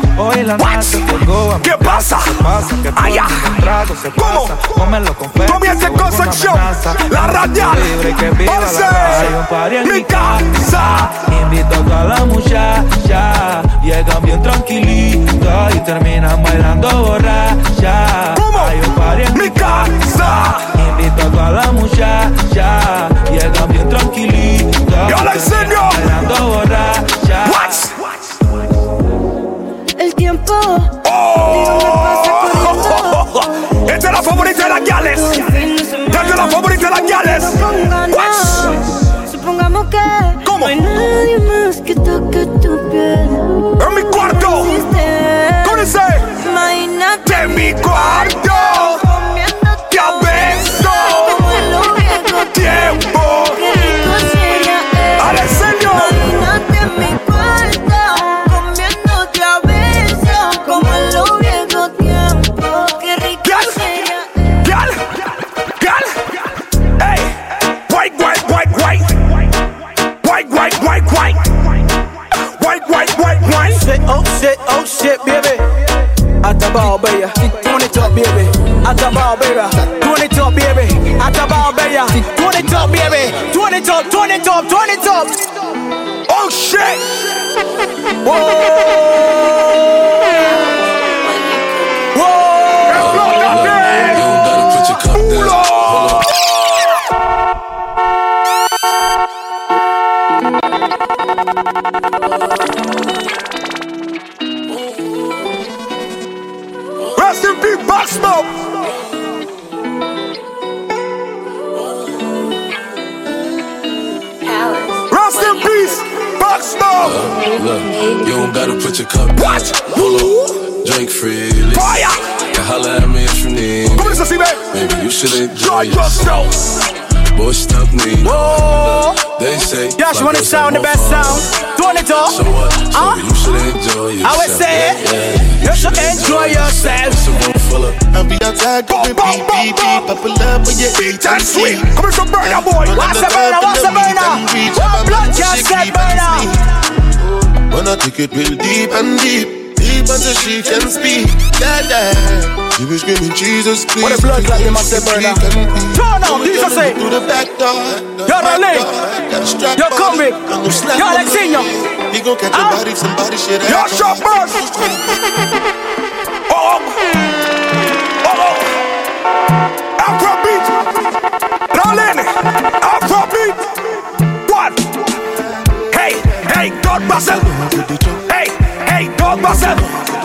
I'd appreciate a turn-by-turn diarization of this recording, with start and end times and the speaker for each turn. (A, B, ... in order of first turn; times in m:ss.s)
0:00.2-0:10.5 A
0:00.6-0:01.0 B
0:01.6-0:02.4 B
0:03.0-0:03.6 B
0:04.1-0:04.6 B
0:05.4-0:07.9 B
0:08.4-0:11.2 B
0:11.3-0:19.7 A
0:18.4-0:18.8 B
0:19.3-0:20.7 B
0:20.8-0:27.8 A
0:25.0-0:26.1 B
0:27.4-0:28.0 B
0:30.0-0:30.9 C
0:31.0-0:35.5 B
0:31.5-0:33.3 C
0:35.0-0:52.9 C
0:36.1-0:38.7 B
0:40.4-0:40.7 B
0:43.8-0:44.8 B
0:45.6-0:46.3 B
0:47.2-0:49.0 B
0:49.9-0:51.4 B
0:52.5-0:53.6 B
0:53.5-1:04.4 C
0:55.2-0:56.2 B
1:03.4-1:03.8 B
1:04.6-1:05.2 B
1:05.8-1:06.4 B
1:07.0-1:09.2 B
1:10.2-1:11.4 B
1:12.6-1:13.8 B
1:13.7-1:15.7 D
1:16.4-1:25.4 D
1:26.3-1:27.0 B
1:28.2-1:29.5 D
1:30.4-1:31.8 C
1:32.1-1:32.8 D
1:32.9-1:34.3 B
1:32.9-1:36.2 E
1:35.1-1:36.2 B
1:47.2-1:48.5 B
1:54.4-1:55.6 C
1:55.1-1:57.3 B
1:57.0-2:02.0 E
1:57.9-1:58.3 C
1:59.4-2:00.4 B
2:01.7-2:02.2 B
2:02.5-2:06.3 E
2:03.9-2:04.8 B
2:05.5-2:06.8 B
2:07.3-2:11.5 E
2:08.2-2:09.2 D
2:10.0-2:12.4 D
2:12.3-2:18.0 E
2:12.9-2:13.2 D
2:14.2-2:15.0 D
2:15.6-2:17.3 D
2:18.1-2:21.9 F
2:18.9-2:20.0 B
2:20.9-2:23.0 B
2:22.4-2:26.6 F
2:22.9-2:26.5 D
2:27.2-2:45.2 F
2:34.0-2:35.4 D
2:35.9-2:37.0 D
2:38.3-2:38.9 D
2:39.7-2:41.7 D
2:42.5-2:42.8 D
2:43.6-2:44.6 B
2:46.5-2:47.1 B
2:48.2-2:48.7 B
2:50.0-2:50.8 B
2:51.7-2:53.7 B
2:54.4-2:54.8 B
2:55.9-2:57.5 B
2:58.3-2:59.9 B